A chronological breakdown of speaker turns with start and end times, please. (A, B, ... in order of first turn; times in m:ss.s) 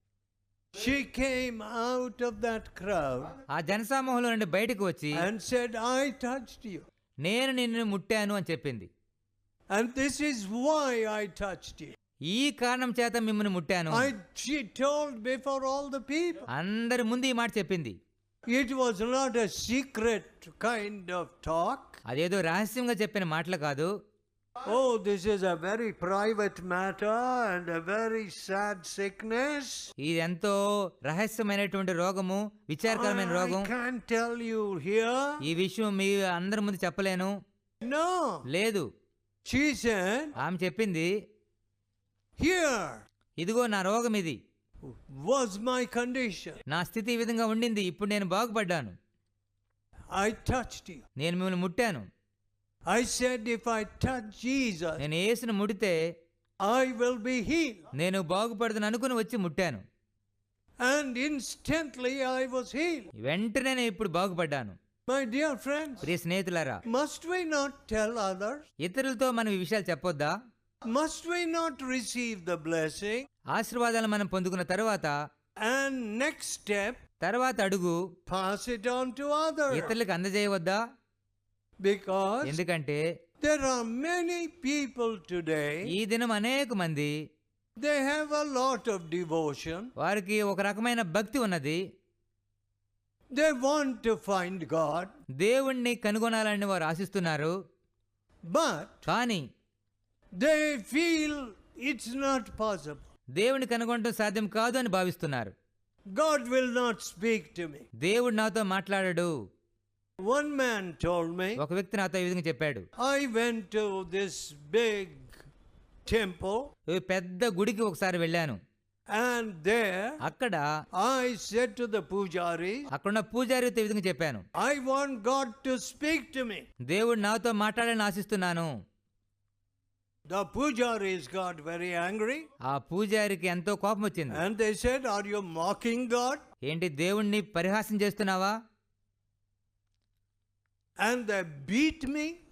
0:00.8-0:03.3 A
0:03.5-0:05.2 B
0:05.1-0:06.8 A
0:07.2-0:08.9 B
0:09.7-0:11.9 A
0:12.3-0:14.1 B
0:13.9-0:16.4 A
0:16.5-0:18.0 B
0:18.5-0:22.0 A
0:22.1-0:23.9 B
0:24.7-0:29.9 A
0:30.0-0:33.7 B
0:32.9-0:35.4 A
0:35.4-0:37.3 B
0:37.8-0:38.4 A
0:38.5-0:38.9 B
0:39.5-0:40.4 A
0:40.4-0:41.1 B
0:42.4-0:43.0 A
0:43.4-0:44.4 B
0:44.9-0:46.6 A
0:46.7-0:49.0 B
0:50.1-0:51.0 A
0:51.2-0:52.1 B
0:52.9-0:55.0 A
0:55.0-0:56.0 B
0:56.6-0:57.9 A
0:57.9-0:59.8 B
1:00.8-1:03.1 A
1:03.2-1:04.8 B
1:05.1-1:06.1 A
1:06.0-1:06.8 B
1:06.9-1:08.7 A
1:08.8-1:10.3 B
1:10.9-1:13.3 A
1:13.5-1:15.1 B
1:15.6-1:17.0 A
1:17.2-1:18.0 B
1:18.3-1:20.0 A
1:19.7-1:20.8 B
1:21.8-1:22.6 A
1:22.4-1:23.0 B
1:23.4-1:25.9 A
1:25.9-1:27.2 B
1:27.8-1:29.9 A
1:30.0-1:31.8 B
1:33.3-1:35.1 A
1:35.4-1:37.5 B
1:38.5-1:39.1 A
1:39.1-1:39.4 B
1:40.4-1:43.1 A
1:43.4-1:45.5 B
1:46.1-1:47.9 A
1:48.0-1:49.3 B
1:50.2-1:51.6 A
1:51.6-1:52.9 B
1:53.0-1:55.4 A
1:56.1-1:56.7 A
1:56.9-1:58.6 B
1:59.1-2:00.2 A
2:00.2-2:00.7 B
2:01.0-2:02.9 A
2:02.9-2:04.4 B
2:04.6-2:06.7 A
2:06.9-2:08.7 B
2:10.3-2:12.4 A
2:12.7-2:14.4 B
2:14.3-2:16.4 A
2:16.6-2:18.6 B
2:21.0-2:22.4 A